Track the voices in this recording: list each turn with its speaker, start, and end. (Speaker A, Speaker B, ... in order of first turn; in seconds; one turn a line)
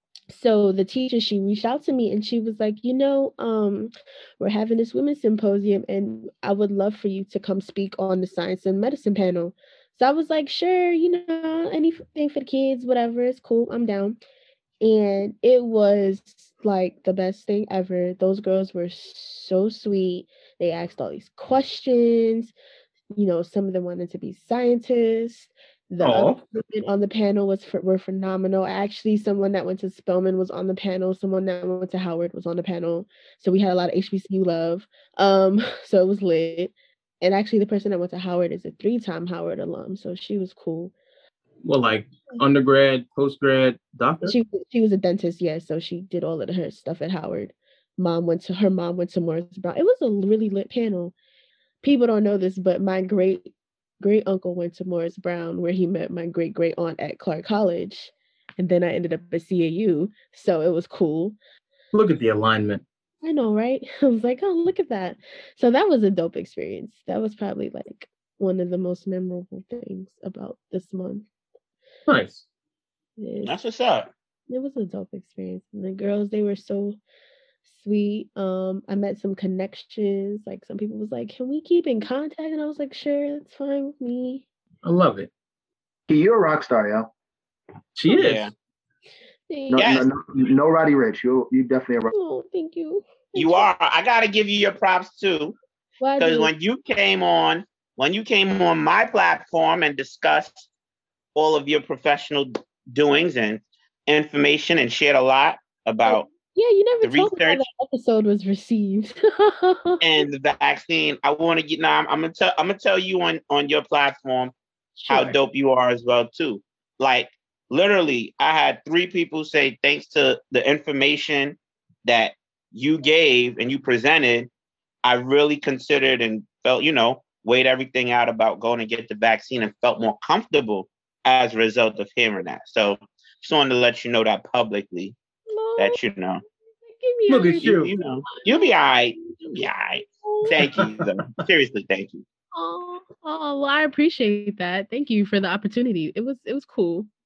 Speaker A: 0.3-14.2
Speaker A: 14.8-22.5
Speaker A: 23.1-40.9
Speaker B: 26.0-26.4
Speaker B: 41.6-44.4
Speaker A: 44.2-51.1
Speaker A: 51.8-61.4
Speaker B: 61.9-62.8
Speaker A: 63.2-71.2
Speaker B: 72.1-72.5
Speaker A: 73.2-73.6
Speaker C: 73.4-74.1
Speaker A: 74.5-77.0
Speaker A: 77.7-84.5
Speaker B: 84.8-85.3
Speaker D: 86.1-87.1
Speaker B: 88.0-88.5
Speaker C: 88.1-88.5
Speaker A: 89.5-89.9
Speaker D: 89.7-92.1
Speaker C: 89.7-90.1
Speaker A: 92.1-93.7
Speaker C: 93.3-95.6
Speaker A: 96.0-96.5
Speaker C: 96.2-100.7
Speaker C: 101.3-106.3
Speaker A: 106.0-110.0
Speaker C: 107.0-107.6
Speaker C: 110.0-114.5
Speaker A: 115.0-115.4
Speaker C: 115.1-124.5
Speaker C: 125.0-135.2
Speaker A: 135.5-136.0
Speaker C: 135.8-136.4
Speaker A: 136.9-139.4
Speaker B: 137.3-137.9
Speaker C: 137.6-142.2
Speaker A: 140.2-140.6
Speaker B: 140.6-141.1
Speaker A: 142.5-147.1